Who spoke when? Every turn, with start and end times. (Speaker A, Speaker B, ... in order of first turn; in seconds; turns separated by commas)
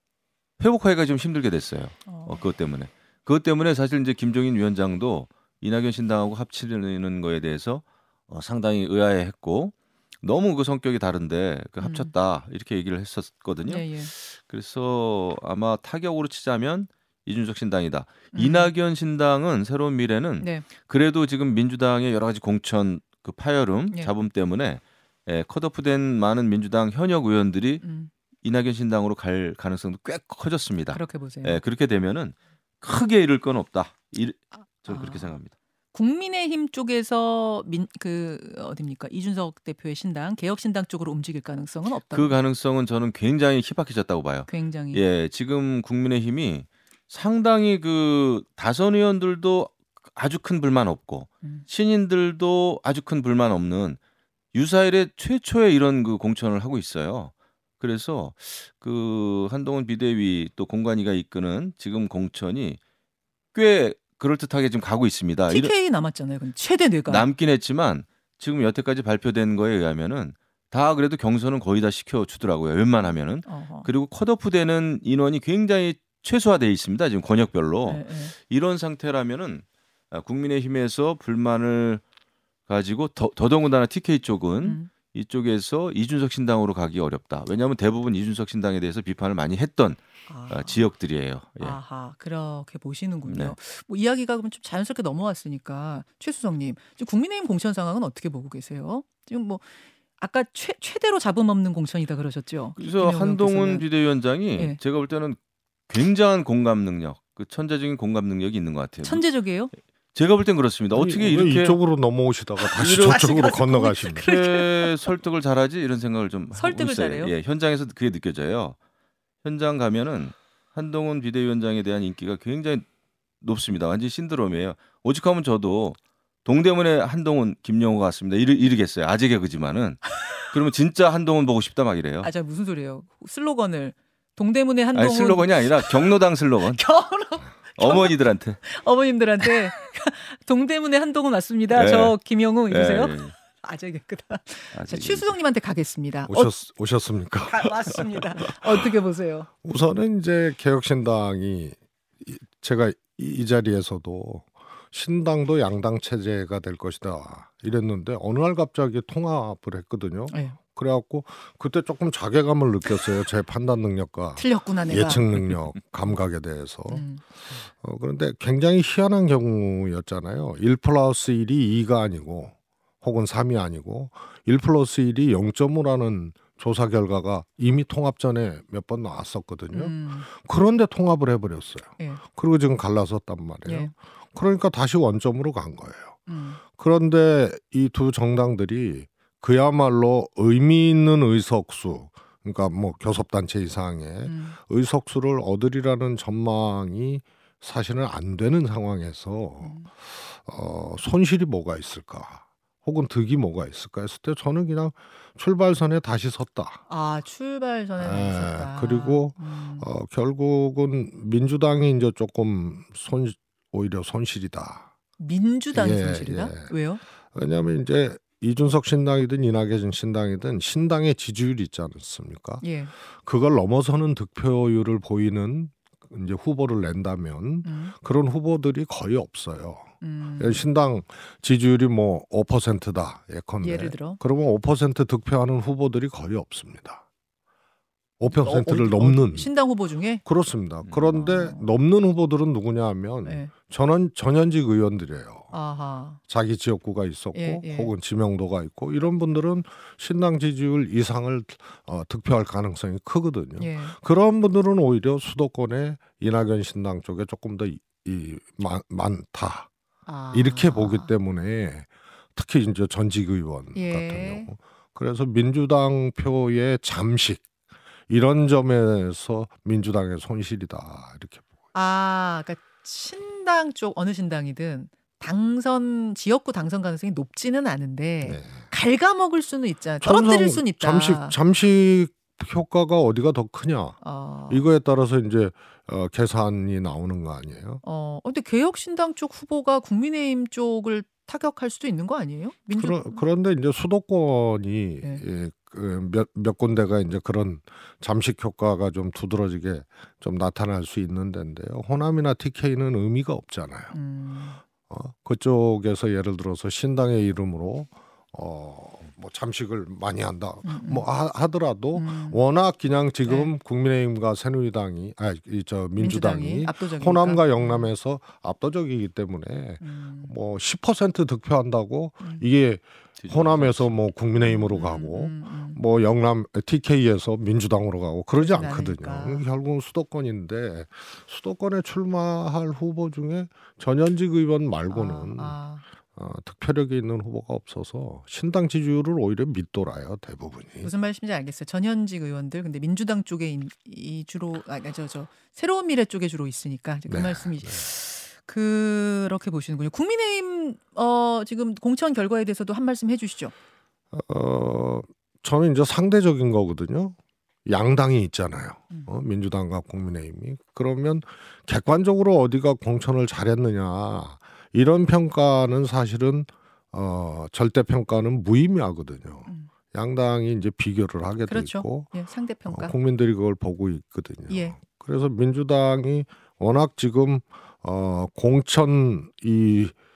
Speaker A: 0.6-27.8, Speaker B: 2.0-2.4, Speaker B: 11.8-12.1, Speaker B: 13.7-14.1, Speaker B: 18.3-18.7, Speaker B: 20.4-20.6, Speaker B: 27.8-28.1, Speaker A: 28.4-35.5, Speaker B: 30.9-31.6, Speaker B: 34.9-35.3, Speaker B: 35.9-42.4, Speaker A: 42.1-54.0, Speaker B: 44.5-45.0, Speaker A: 54.5-62.8, Speaker A: 63.5-65.7, Speaker B: 65.5-67.3, Speaker A: 67.1-82.0, Speaker B: 73.4-73.9, Speaker B: 77.8-78.3, Speaker A: 82.7-91.8, Speaker B: 84.6-84.9, Speaker B: 90.3-90.8, Speaker B: 91.6-99.7, Speaker A: 93.2-93.5, Speaker B: 100.2-103.8, Speaker A: 102.8-105.4, Speaker A: 105.9-109.2, Speaker B: 109.0-109.7, Speaker A: 110.1-111.8, Speaker C: 110.9-114.2, Speaker B: 112.6-115.0, Speaker A: 112.8-113.6, Speaker A: 114.2-118.8, Speaker B: 116.5-117.3, Speaker A: 119.4-122.8, Speaker A: 123.4-132.3, Speaker B: 132.2-136.0, Speaker A: 134.9-136.8, Speaker B: 136.8-146.5, Speaker A: 137.7-138.6, Speaker A: 141.7-142.2, Speaker A: 142.7-143.3, Speaker A: 144.7-145.3, Speaker C: 146.3-148.0, Speaker B: 147.4-149.5, Speaker C: 149.6-167.1, Speaker B: 160.3-160.6, Speaker B: 164.3-165.3, Speaker B: 166.9-167.2, Speaker C: 167.7-206.8, Speaker B: 179.7-180.3, Speaker B: 183.6-183.9, Speaker B: 186.3-186.6, Speaker B: 194.2-194.6, Speaker B: 199.6-199.9, Speaker B: 206.9-209.9, Speaker C: 208.0-214.9, Speaker B: 215.2-217.0, Speaker C: 215.7-216.7, Speaker C: 217.3-237.0, Speaker B: 222.6-222.9, Speaker B: 227.6-227.9, Speaker B: 230.0-230.7, Speaker B: 233.6-234.2, Speaker C: 238.2-239.5, Speaker B: 238.3-240.2, Speaker C: 240.2-245.5, Speaker B: 241.1-241.7, Speaker B: 243.2-243.5, Speaker B: 245.5-246.2, Speaker C: 246.3-259.7, Speaker B: 247.3-247.9, Speaker B: 253.6-253.9, Speaker B: 260.1-261.1, Speaker C: 260.3-267.4, Speaker B: 263.7-264.5, Speaker C: 268.1-271.4, Speaker B: 271.7-281.3, Speaker C: 278.2-278.6, Speaker C: 280.0-284.0, Speaker B: 284.0-284.7, Speaker C: 284.5-287.8, Speaker B: 287.8-293.2, Speaker C: 292.8-303.9, Speaker B: 303.9-304.6, Speaker C: 304.9-335.6, Speaker B: 310.6-311.1, Speaker B: 311.9-312.4, Speaker B: 313.2-313.5, Speaker B: 316.0-317.9, Speaker B: 319.8-320.3, Speaker A: 323.2-323.9, Speaker B: 324.4-325.8, Speaker B: 328.4-329.4, Speaker B: 334.9-335.8, Speaker C: 336.1-340.9, Speaker B: 340.8-353.5, Speaker C: 347.1-347.9, Speaker C: 354.1-372.1, Speaker B: 371.5-372.9, Speaker C: 372.7-379.9, Speaker B: 374.5-374.8